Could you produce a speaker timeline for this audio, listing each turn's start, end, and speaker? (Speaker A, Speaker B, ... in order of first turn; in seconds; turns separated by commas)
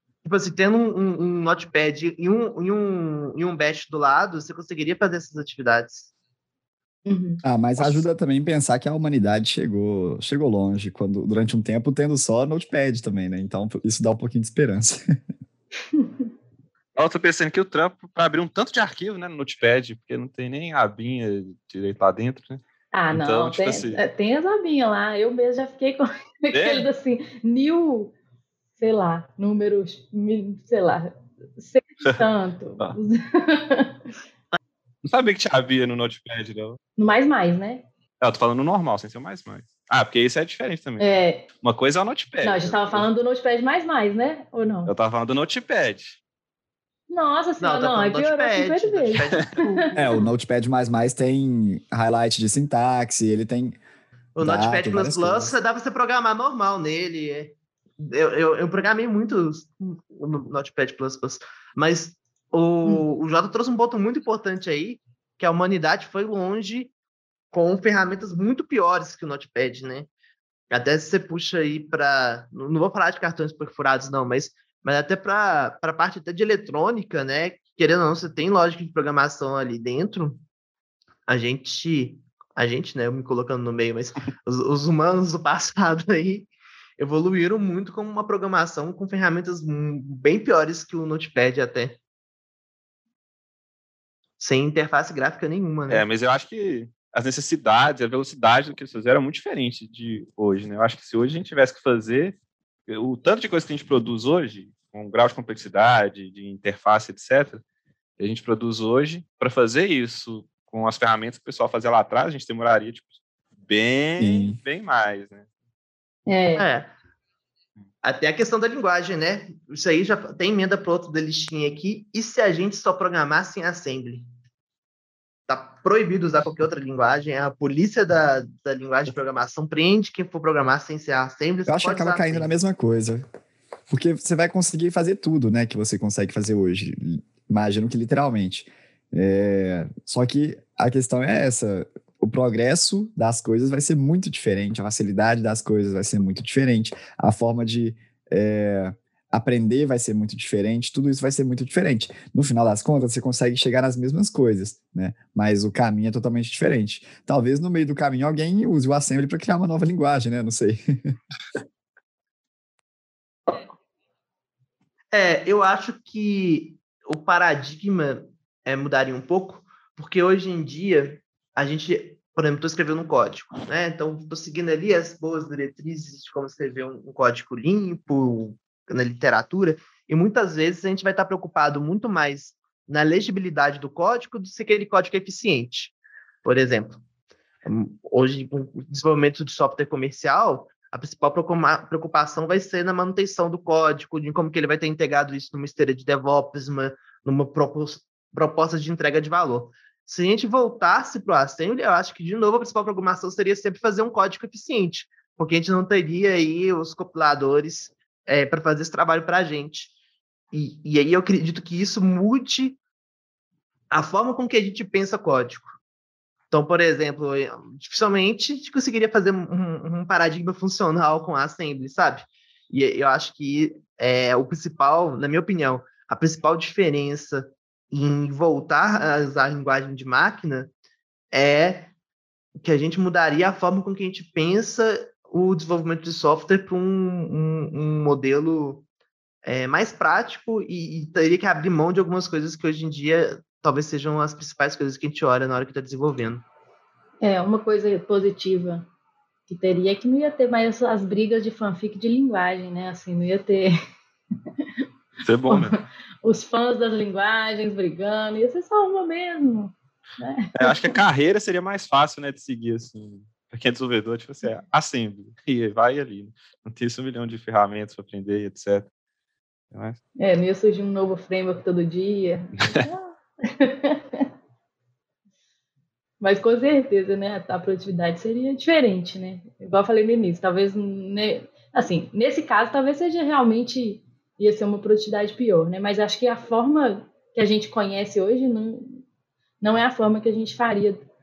Speaker A: 0.2-6.1, Speaker B: 7.0-7.4, Speaker C: 7.4-15.0, Speaker B: 15.9-16.3, Speaker D: 16.9-24.0, Speaker B: 22.9-28.1, Speaker D: 26.5-26.9, Speaker B: 28.8-34.0, Speaker D: 35.0-36.8, Speaker B: 37.0-37.9, Speaker D: 38.2-41.1, Speaker B: 41.0-41.5, Speaker D: 41.6-43.1, Speaker B: 42.4-44.9, Speaker D: 44.9-46.2, Speaker B: 47.1-49.9, Speaker A: 47.6-50.3, Speaker C: 49.9-53.8, Speaker A: 54.4-66.9, Speaker C: 54.4-55.5, Speaker A: 67.5-70.1, Speaker A: 70.7-80.4, Speaker A: 81.3-92.0, Speaker A: 94.4-96.0, Speaker D: 95.9-102.3, Speaker D: 102.9-107.6, Speaker D: 108.2-113.1, Speaker D: 113.6-115.5, Speaker C: 114.2-114.6, Speaker B: 116.3-116.7, Speaker A: 116.5-116.9, Speaker A: 118.0-124.3, Speaker A: 125.5-132.5, Speaker C: 131.7-133.2, Speaker C: 133.9-161.1, Speaker A: 165.1-187.0, Speaker A: 187.6-209.9, Speaker A: 210.5-212.8, Speaker A: 213.9-215.8, Speaker A: 216.5-230.7, Speaker A: 231.3-231.9, Speaker A: 232.6-238.8, Speaker A: 239.4-246.4, Speaker B: 247.2-248.9, Speaker B: 249.5-253.7, Speaker D: 255.2-255.8, Speaker B: 255.5-260.9, Speaker D: 260.5-268.9, Speaker D: 269.7-270.0, Speaker B: 270.2-274.2, Speaker B: 276.2-289.0, Speaker B: 289.6-291.0